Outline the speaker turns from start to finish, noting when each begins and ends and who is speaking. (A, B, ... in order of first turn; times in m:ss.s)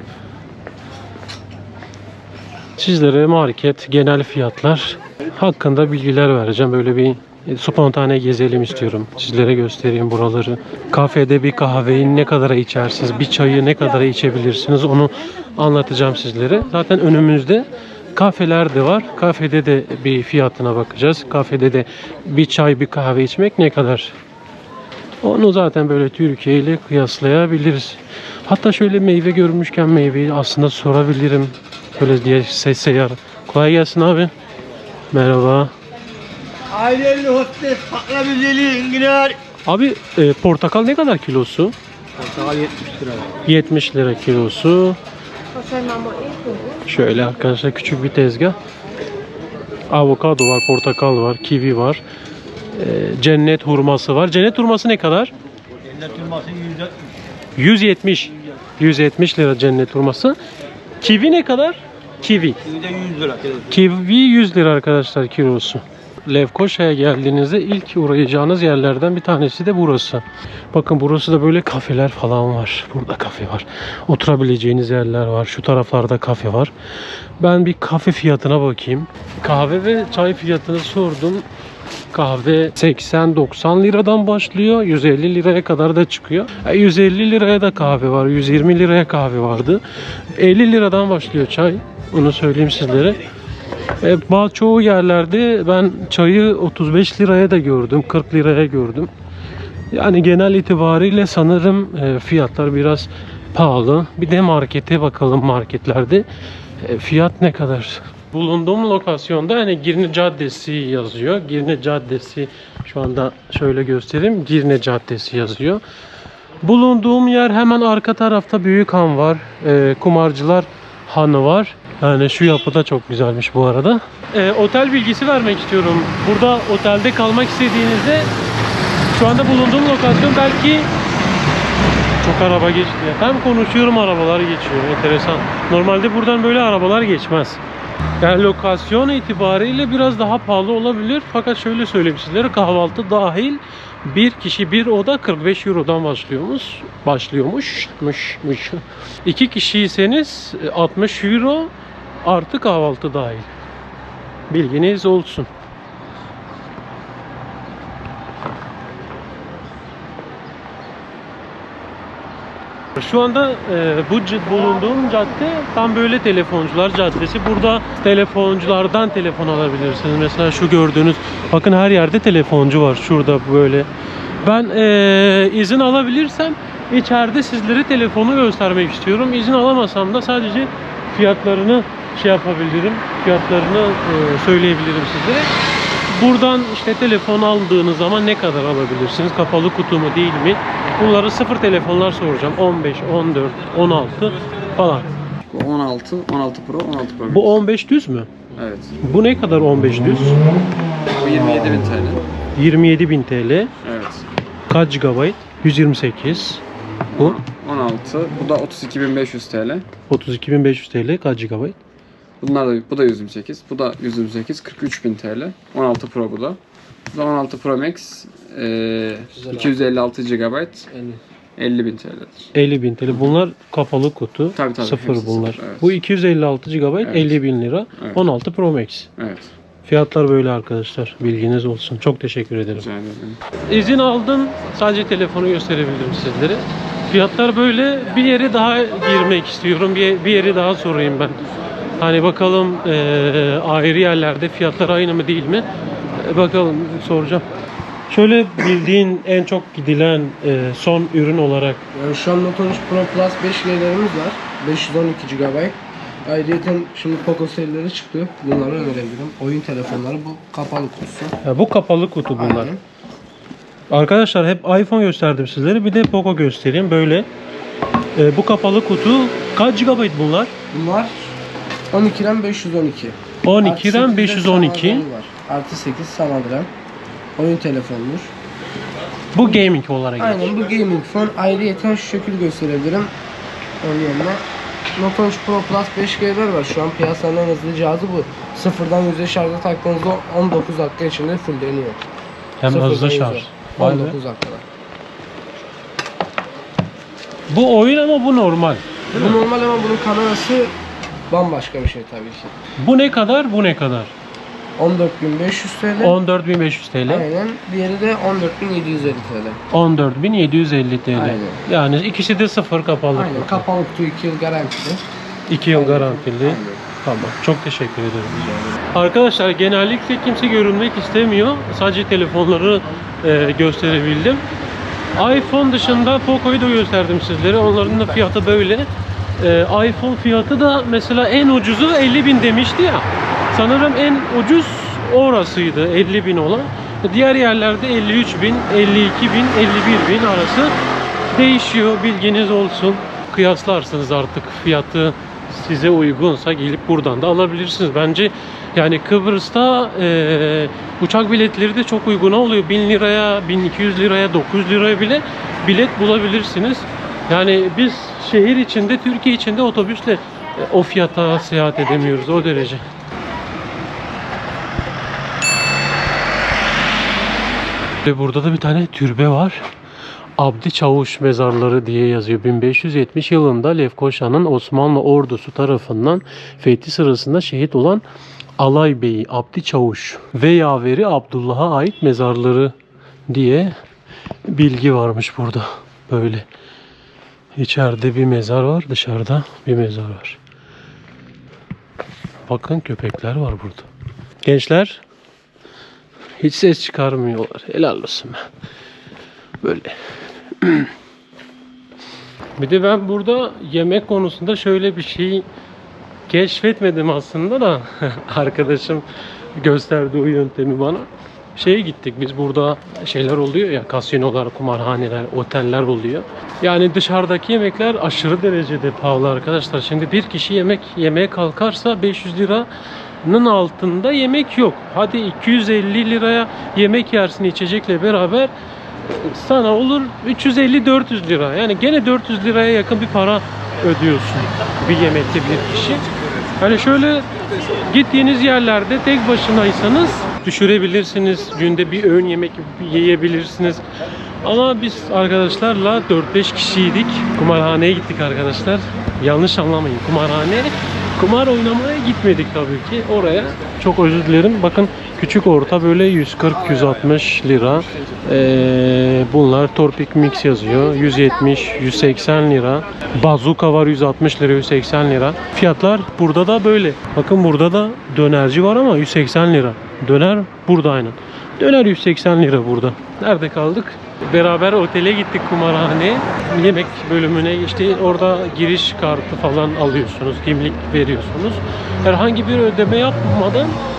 0:02.8-0:24.2 A
0:25.2-0:34.3 A
0:35.1-0:35.7 A
0:36.7-0:39.4 B
0:39.6-0:41.7 A
0:42.2-0:43.2 B
0:43.4-0:45.0 A
0:45.7-0:46.6 B
0:46.8-0:48.6 A
0:49.9-0:52.0 A
0:52.7-0:55.3 A
0:56.0-0:56.9 B
0:57.6-1:00.4 A
1:01.0-1:02.6 A
1:02.8-1:03.4 B
1:03.6-1:16.7 A
1:17.4-1:21.4 A
1:22.1-1:33.2 A
1:34.0-1:39.1 A
1:39.9-1:46.2 A
1:46.8-1:55.8 A
1:56.6-2:08.3 A
2:09.1-2:10.9 A
2:12.2-2:17.6 A
2:18.2-2:31.7 A
2:32.2-2:33.5 A
2:34.5-2:35.5 A
2:43.0-2:53.9 A
2:54.4-3:05.5 A
3:06.1-3:15.1 A
3:15.5-3:17.6 C
3:17.3-3:18.3 A
3:18.5-3:19.0 C
3:19.0-3:20.4 A
3:21.1-3:22.2 C
3:22.6-3:23.7 A
3:23.8-3:24.3 C
3:24.7-3:26.6 A
3:27.1-3:29.9 C
3:30.1-3:31.8 A
3:32.4-3:36.6 C
3:37.1-3:40.9 C
3:40.9-3:41.2 A
3:41.6-3:42.5 C
3:42.5-3:49.1 A
3:43.1-3:43.4 C
3:44.5-3:46.0 C
3:47.0-3:47.4 C
3:48.0-3:48.2 C
3:49.2-3:49.5 C
3:49.8-3:52.9 A
3:52.7-3:53.4 C
3:53.7-4:01.4 A
4:02.0-4:07.4 A
4:08.1-4:11.8 A
4:11.9-4:21.4 D
4:21.4-4:22.7 A
4:22.3-4:22.8 D
4:23.9-4:27.3 A
4:28.1-4:30.5 A
4:30.7-4:31.4 D
4:31.9-4:36.7 D
4:33.4-4:35.0 A
4:37.4-4:38.3 D
4:39.3-4:40.5 A
4:40.2-4:43.1 D
4:43.8-4:44.4 D
4:45.0-4:52.1 D
4:52.6-4:54.2 A
4:52.7-4:54.6 D
4:57.5-4:59.4 A
4:59.1-5:00.8 D
5:01.3-5:02.6 D
5:02.8-5:04.1 A
5:04.8-5:06.2 D
5:06.0-5:07.2 A
5:07.1-5:09.6 D
5:09.7-5:13.6 A
5:11.1-5:11.6 D
5:13.1-5:15.0 D
5:15.5-5:24.4 A
5:15.7-5:16.8 D
5:25.1-5:40.7 A
5:41.3-6:02.8 A
6:08.0-6:09.6 A
6:10.4-6:18.0 A
6:18.6-6:22.7 A
6:23.3-6:23.8 A
6:24.5-6:26.4 A
6:27.6-6:30.4 A
6:32.5-6:33.9 A
6:34.4-6:35.0 A
6:36.4-6:38.4 A
6:39.6-6:40.0 A
6:40.6-6:40.9 A
6:42.6-6:45.4 A
6:46.3-7:02.7 A
7:03.2-7:08.5 A
7:09.0-7:16.1 A
7:16.6-7:17.3 A
7:17.8-7:23.8 A
7:24.4-8:03.8 A